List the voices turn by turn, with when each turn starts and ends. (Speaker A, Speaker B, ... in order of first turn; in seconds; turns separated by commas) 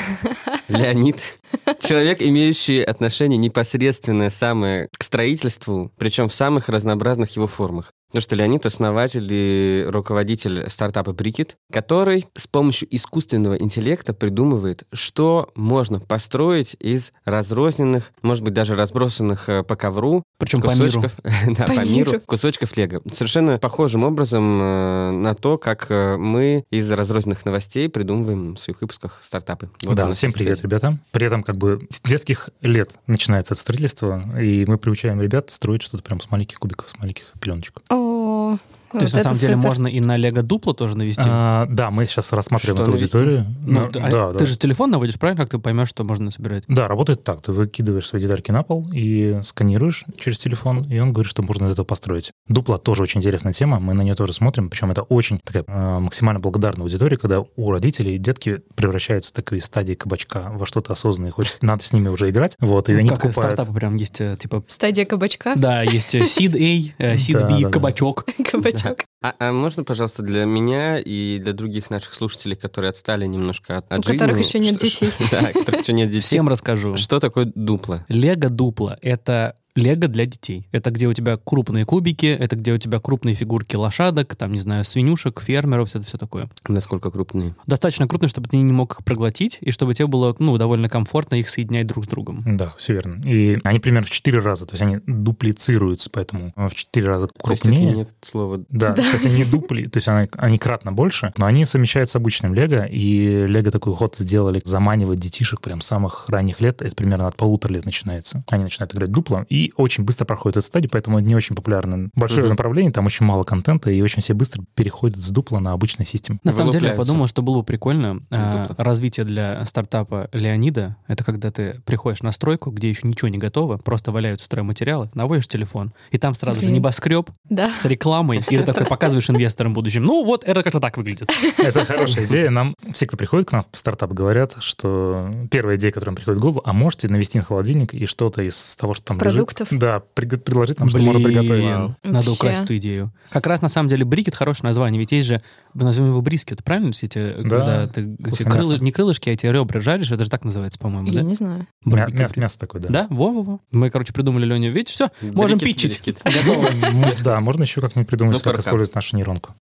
Speaker A: 0.7-30.6, Speaker B: 20.4-21.1, Speaker C: 21.7-22.2, Speaker D: 29.9-37.8, Speaker C: 37.9-39.8, Speaker B: 39.0-41.4, Speaker D: 41.2-44.5, Speaker A: 42.6-43.4, Speaker B: 43.7-46.7, Speaker D: 46.7-63.6, Speaker B: 62.9-64.7, Speaker C: 64.7-66.3, Speaker B: 65.5-68.3, Speaker D: 67.1-68.0, Speaker C: 68.4-69.0, Speaker A: 68.7-78.0, Speaker C: 74.0-75.8, Speaker B: 76.2-77.1, Speaker B: 78.1-86.5, Speaker A: 86.7-87.5, Speaker B: 87.7-92.5, Speaker D: 92.5-98.0, Speaker A: 97.5-98.7, Speaker D: 98.7-116.4, Speaker C: 98.9-99.6, Speaker A: 112.3-112.6, Speaker B: 116.4-131.3, Speaker A: 116.5-117.2, Speaker A: 118.4-118.8, Speaker C: 126.5-126.9, Speaker C: 127.5-127.9, Speaker C: 131.5-131.9, Speaker D: 131.6-141.9, Speaker C: 139.2-139.8, Speaker B: 140.8-151.3, Speaker A: 141.6-141.9, Speaker C: 142.1-142.7, Speaker D: 147.4-148.8, Speaker C: 151.1-151.7, Speaker B: 151.8-157.2, Speaker D: 151.9-153.0, Speaker A: 155.2-156.2, Speaker D: 156.3-159.5, Speaker A: 158.3-158.8